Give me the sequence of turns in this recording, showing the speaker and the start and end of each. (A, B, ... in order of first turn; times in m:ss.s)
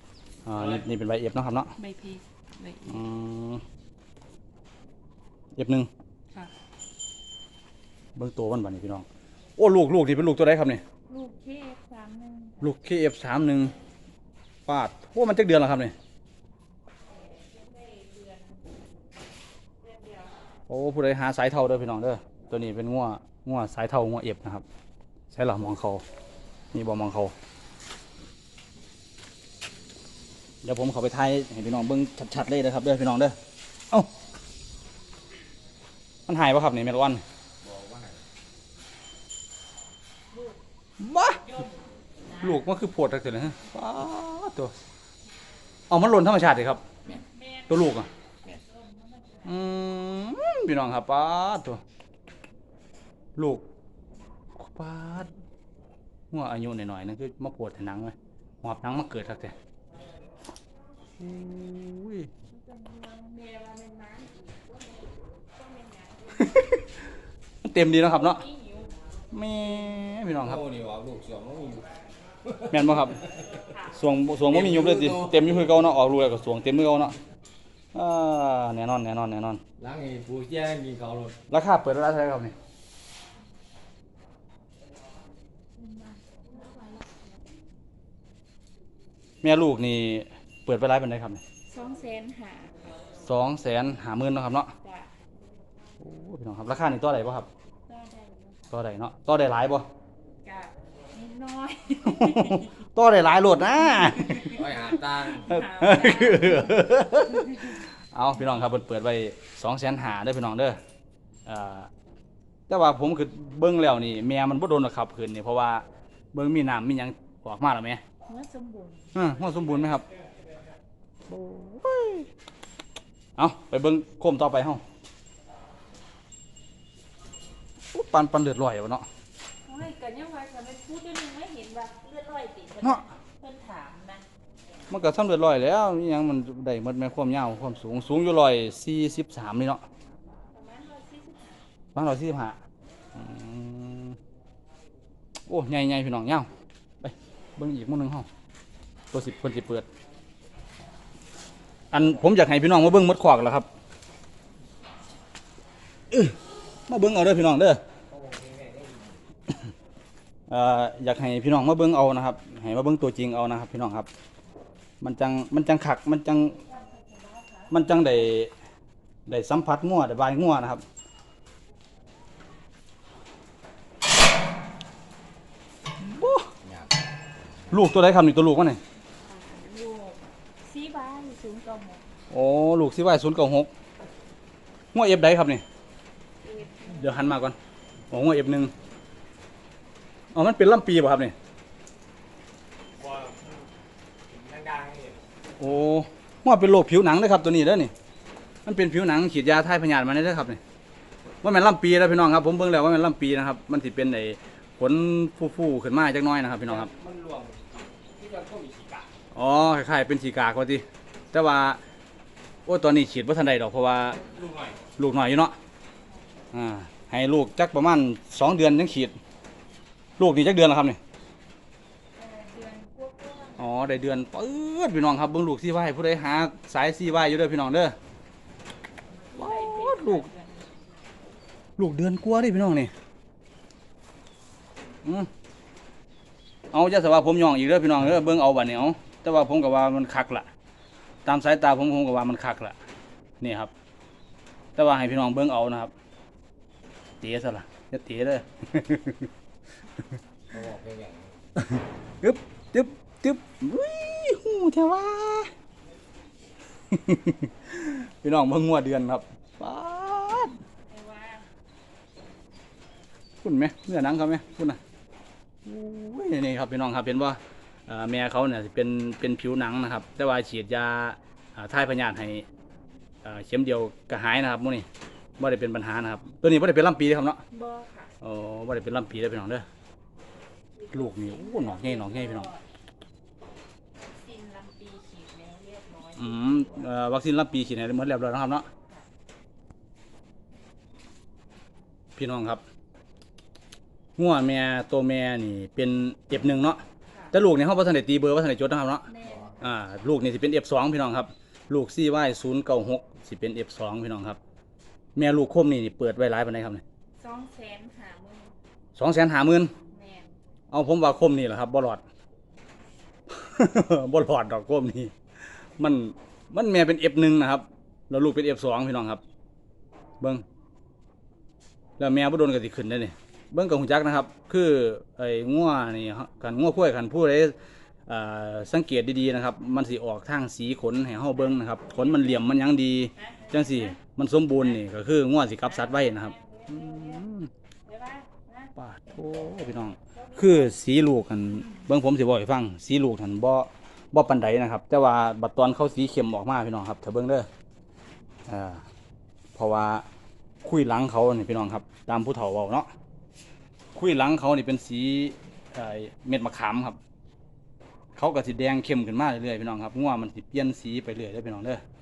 0:00.5-0:01.7 A
0:01.8-0:03.0 B
0:02.9-0:03.6 A
0:05.6-0:05.9 A
0:08.2-0:09.1 A
0:09.6-0:10.8 A
0:11.1-0:12.7 B
0:12.6-0:13.7 A
0:14.7-0:15.9 A
0:17.1-0:18.6 B
0:19.8-0:20.3 B
0:20.7-0:24.6 A
0:25.3-0:26.0 A
0:26.7-0:27.3 A
0:30.6-0:33.4 A
0:36.3-0:37.2 A
0:37.6-0:38.2 C
0:40.3-0:40.6 B
0:41.0-0:41.5 A
0:41.4-0:41.7 B
0:42.3-0:42.6 B
0:42.4-0:44.7 A
0:45.9-0:46.8 A
0:47.1-0:49.6 B
0:47.7-0:48.1 A
0:49.4-0:51.8 A
0:53.4-0:53.6 A
0:54.6-0:55.3 A
0:56.3-0:59.5 A
1:01.2-1:02.3 A
1:02.5-1:06.7 B
1:06.4-1:07.0 A
1:07.6-1:08.4 A
1:08.1-1:09.0 B
1:09.3-1:10.6 A
1:10.4-1:12.8 C
1:12.7-1:13.2 A
1:13.5-1:13.9 B
1:13.9-1:17.2 A
1:14.5-1:15.7 C
1:17.9-1:19.6 A
1:19.8-1:21.4 C
1:21.5-1:22.6 A
1:29.4-1:31.4 A
1:31.7-1:32.8 B
1:33.2-1:34.7 A
1:34.8-1:35.1 B
1:36.0-1:37.5 A
1:37.9-1:38.6 B
1:38.7-1:39.8 A
1:40.4-1:42.7 B
1:42.0-1:50.8 A
1:44.0-1:44.6 B
1:44.5-1:45.5 C
1:45.4-1:46.8 B
1:51.5-1:51.9 A
1:52.7-1:58.0 A
1:58.3-1:59.2 B
1:59.1-2:00.0 A
2:01.3-2:02.3 A
2:03.4-2:04.8 A
2:07.9-2:09.1 A
2:09.6-2:14.3 B
2:14.9-2:19.8 A
2:20.5-2:21.6 B
2:22.0-2:22.6 A
2:23.2-2:24.2 A
2:25.5-2:26.5 A
2:27.0-2:28.3 A
2:29.1-2:29.9 A
2:31.9-2:33.7 A
2:36.1-2:36.4 A
2:36.9-2:37.8 A
2:38.1-2:39.2 C
2:40.5-2:44.1 A
2:45.0-2:46.6 A
2:46.7-2:47.7 B
2:47.7-2:48.5 A
2:49.3-2:50.8 A
2:56.0-2:56.5 A
2:56.6-2:56.9 C
2:57.7-2:58.8 A
2:59.2-3:02.0 B
3:02.3-3:03.7 A
3:04.9-3:05.6 A
3:06.4-3:07.2 B
3:06.9-3:07.6 A
3:08.1-3:08.7 A
3:10.3-3:11.4 A
3:13.0-3:13.6 C
3:14.3-3:15.2 C
3:15.6-3:17.9 A
3:18.6-3:20.6 A
3:21.4-3:26.9 A
3:26.6-3:29.1 C
3:29.3-3:31.8 A
3:32.7-3:34.2 A
3:34.3-3:34.8 C
3:35.0-3:35.6 A
3:36.5-3:39.2 A
3:40.2-3:41.0 A
3:42.2-3:43.8 B
3:43.6-3:48.0 A
3:49.1-3:51.0 B
3:49.4-3:50.3 A
3:51.8-3:52.9 A
3:55.0-3:55.3 A
3:56.7-4:00.5 A
4:01.2-4:02.8 A
4:03.4-4:03.7 A
4:04.8-4:05.9 A
4:07.2-4:09.3 A
4:10.5-4:11.4 C
4:11.6-4:15.5 A
4:16.9-4:20.5 A
4:20.9-4:21.5 B
4:23.4-4:24.8 A
4:25.6-4:32.4 A
4:33.2-4:34.9 A
4:35.4-4:37.4 A
4:37.5-4:38.1 B
4:38.2-4:39.7 A
4:40.8-4:42.6 B
4:40.9-4:42.5 A
4:44.1-4:46.9 B
4:46.2-4:48.7 A
4:52.2-4:52.6 A
4:54.2-4:56.8 A
4:57.3-4:59.1 A
4:59.1-4:59.6 B
4:59.3-4:59.5 C
4:59.6-5:04.4 A
5:05.2-5:06.8 A
5:07.2-5:08.6 B
5:09.0-5:09.7 A
5:09.9-5:10.3 B
5:10.7-5:12.0 A
5:13.3-5:15.1 A
5:15.8-5:19.2 A
5:22.0-5:27.6 A
5:28.1-5:37.5 A
5:31.8-5:32.0 B
5:33.2-5:34.0 B
5:35.6-5:37.3 B
5:37.9-5:38.7 B
5:38.8-5:47.5 A
5:40.1-5:40.8 B
5:48.5-5:48.8 A
5:49.6-5:50.0 A
5:50.6-5:52.9 A
5:54.0-5:57.0 A
5:58.2-6:01.8 A